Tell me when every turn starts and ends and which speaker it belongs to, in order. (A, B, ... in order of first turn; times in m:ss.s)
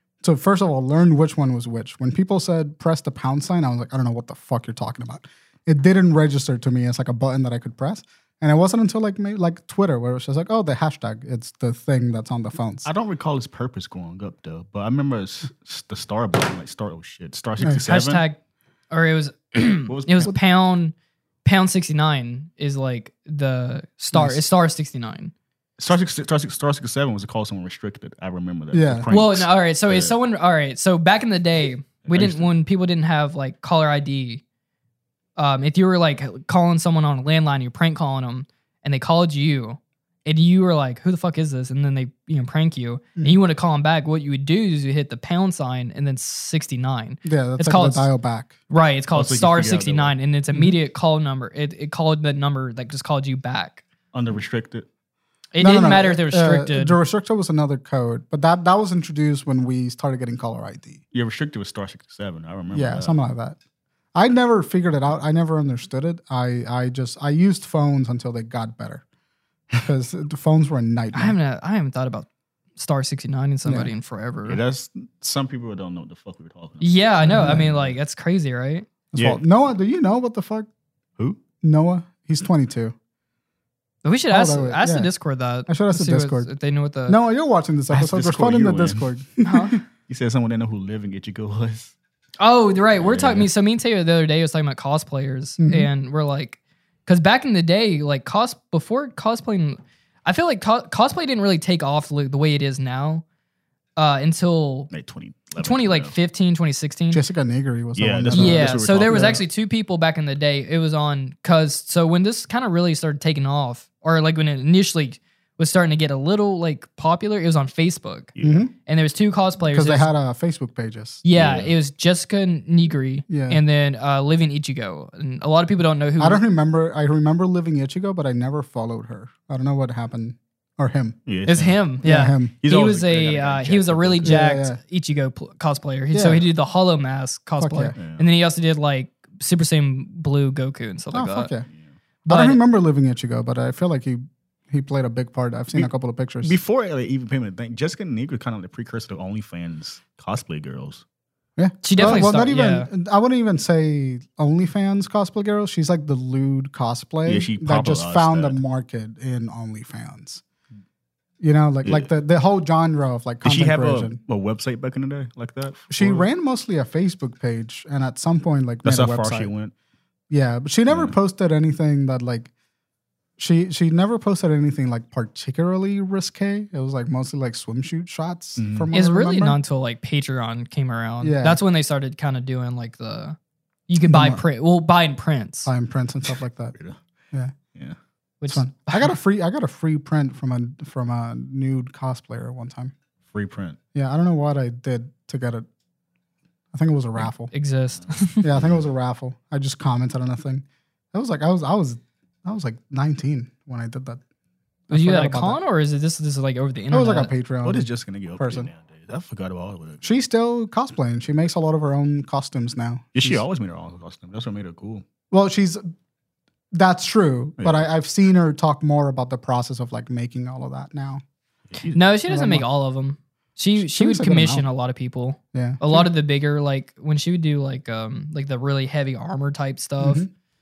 0:00.2-0:12.9 A
0:12.8-0:18.2 B
0:17.7-0:18.4 C
0:18.9-0:25.3 C
0:19.8-0:20.3 B
0:24.1-0:24.4 A
0:25.8-0:30.1 B
0:28.7-0:29.1 A
0:29.1-0:34.4 C
0:32.0-0:32.5 B
0:35.4-0:48.1 C
0:47.2-0:48.5 A
0:48.7-0:53.8 C
0:49.1-0:50.2 B
0:54.1-0:54.9 B
0:55.5-0:57.0 C
0:55.6-1:01.0 A
1:01.1-1:03.1 B
1:02.7-1:03.6 A
1:04.1-1:09.0 A
1:09.7-1:11.4 A
1:11.1-1:14.6 C
1:13.6-1:13.9 A
1:14.4-1:17.9 B
1:16.8-1:18.9 C
1:17.2-1:17.7 A
1:19.1-1:20.7 A
1:19.1-1:19.4 B
1:21.6-1:22.9 A
1:24.0-1:27.2 C
1:24.3-1:25.1 A
1:25.7-1:26.5 A
1:27.1-1:29.8 A
1:27.9-1:29.1 B
1:29.4-1:29.8 C
1:30.1-1:31.9 B
1:32.4-1:43.2 C
1:33.0-1:33.5 B
1:35.6-1:35.9 A
1:44.0-1:44.9 C
1:44.9-1:46.1 B
1:45.6-1:47.2 C
1:47.1-1:49.4 A
1:48.0-1:49.4 B
1:48.3-1:58.3 C
1:58.3-1:58.7 B
1:58.4-1:58.7 A
1:58.8-2:00.1 C
1:59.7-2:01.2 A
2:01.2-2:06.4 C
2:01.3-2:01.7 B
2:03.3-2:03.6 A
2:06.2-2:11.2 A
2:11.2-2:12.0 B
2:11.4-2:21.5 C
2:12.0-2:12.5 A
2:12.6-2:14.4 B
2:14.2-2:14.8 A
2:16.1-2:16.4 A
2:17.6-2:17.9 A
2:18.0-2:18.3 B
2:21.1-2:21.7 A
2:22.2-2:26.6 A
2:22.3-2:22.6 C
2:26.4-2:31.0 B
2:31.6-2:40.4 A
2:31.8-2:32.9 C
2:37.2-2:38.6 B
2:41.4-2:44.2 A
2:43.4-2:46.2 B
2:45.9-2:49.5 A
2:48.8-2:49.7 B
2:50.3-2:52.5 A
2:50.9-2:51.1 B
2:53.4-2:59.6 A
2:58.6-2:58.9 B
2:58.9-3:03.4 C
3:01.2-3:01.6 A
3:03.9-3:05.7 C
3:04.0-3:04.4 A
3:05.6-3:06.7 A
3:08.4-3:09.2 C
3:08.5-3:12.9 A
3:13.3-3:13.8 B
3:13.9-3:15.6 A
3:16.7-3:17.5 A
3:17.5-3:18.4 C
3:18.4-3:24.2 A
3:18.5-3:18.8 B
3:24.9-3:25.6 A
3:24.9-3:27.3 C
3:26.9-3:28.7 A
3:27.6-3:30.1 B
3:30.0-3:33.4 A
3:33.1-3:35.0 B
3:35.3-3:35.8 A
3:36.7-3:41.2 A
3:37.6-3:37.8 B
3:41.7-3:42.0 B
3:41.9-3:50.2 C
3:42.3-3:42.6 A
3:43.8-3:44.6 A
3:45.5-3:46.1 A
3:50.0-3:50.3 A